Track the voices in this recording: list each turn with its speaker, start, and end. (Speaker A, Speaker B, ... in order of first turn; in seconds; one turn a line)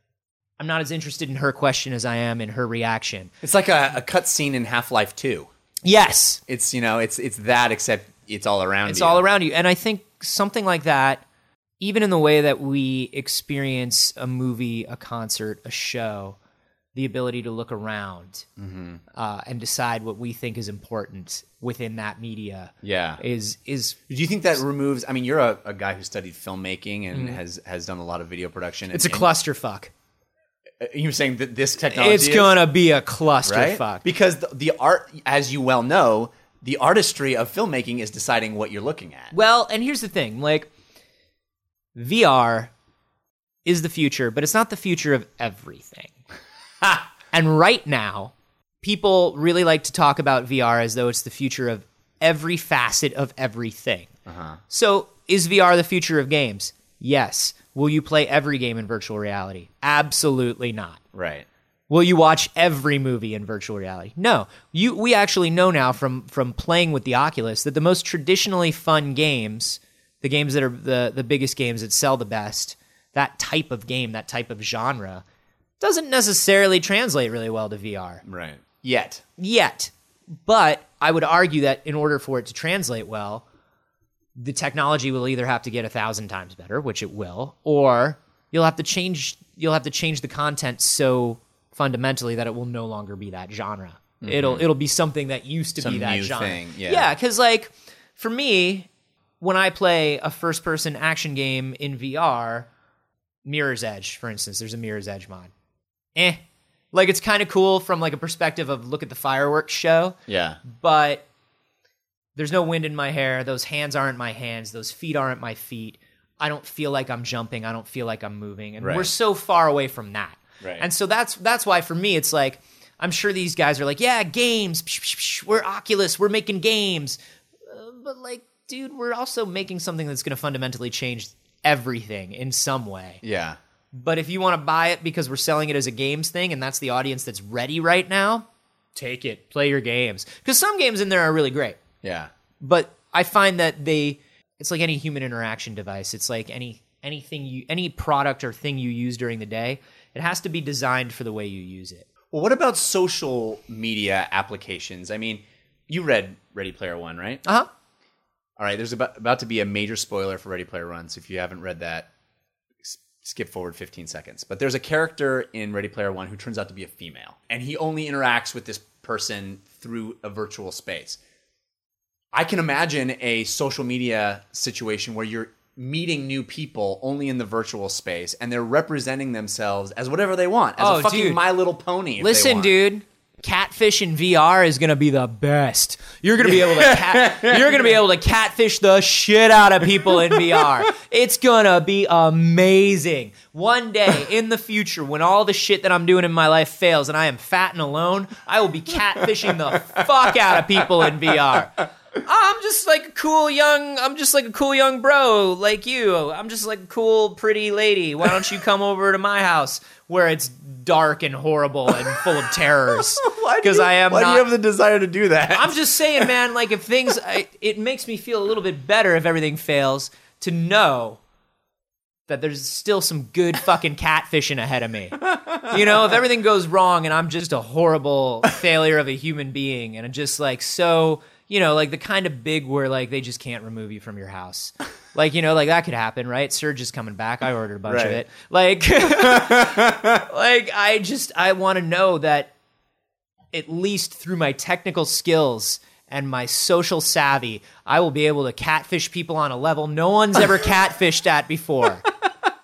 Speaker A: 0.6-3.3
Speaker B: 3.4-5.5
Speaker A: 5.8-6.4
Speaker B: 6.5-9.2
Speaker A: 8.8-11.2
Speaker A: 11.8-16.4
Speaker A: 16.9-18.5
Speaker B: 18.6-19.0
Speaker A: 19.1-24.0
Speaker B: 22.8-23.2
Speaker B: 24.1-29.3
Speaker A: 27.1-27.4
Speaker A: 28.9-29.9
Speaker B: 30.8-32.6
Speaker A: 31.9-34.0
Speaker B: 33.4-39.3
Speaker A: 39.3-40.7
Speaker A: 41.9-42.7
Speaker A: 43.6-46.1
Speaker A: 47.3-54.1
Speaker B: 54.2-54.6
Speaker A: 54.7-61.0
Speaker B: 61.1-61.5
Speaker A: 61.9-75.2
Speaker A: 75.8-78.2
Speaker B: 78.2-79.2
Speaker A: 79.4-79.9
Speaker A: 80.4-83.4
Speaker A: 84.3-98.9
Speaker B: 94.2-94.7
Speaker B: 95.8-97.1
Speaker A: 99.4-102.7
Speaker A: 103.4-105.5
Speaker A: 106.9-111.2
Speaker B: 110.3-110.6
Speaker A: 112.3-133.2
Speaker B: 118.8-119.1
Speaker B: 120.6-120.8
Speaker B: 133.2-133.6
Speaker A: 133.9-141.8
Speaker B: 142.0-142.3
Speaker A: 142.6-152.1
Speaker B: 152.3-157.4
Speaker B: 158.6-162.1
Speaker B: 162.8-171.2
Speaker B: 172.3-182.7
Speaker A: 180.8-181.4
Speaker A: 182.2-214.5
Speaker B: 186.4-188.0
Speaker B: 190.1-190.7
Speaker B: 200.8-201.3
Speaker B: 212.9-216.3
Speaker A: 215.5-221.2
Speaker A: 222.3-242.5
Speaker B: 225.3-225.9
Speaker B: 237.9-238.2
Speaker B: 239.0-240.2
Speaker A: 243.5-252.1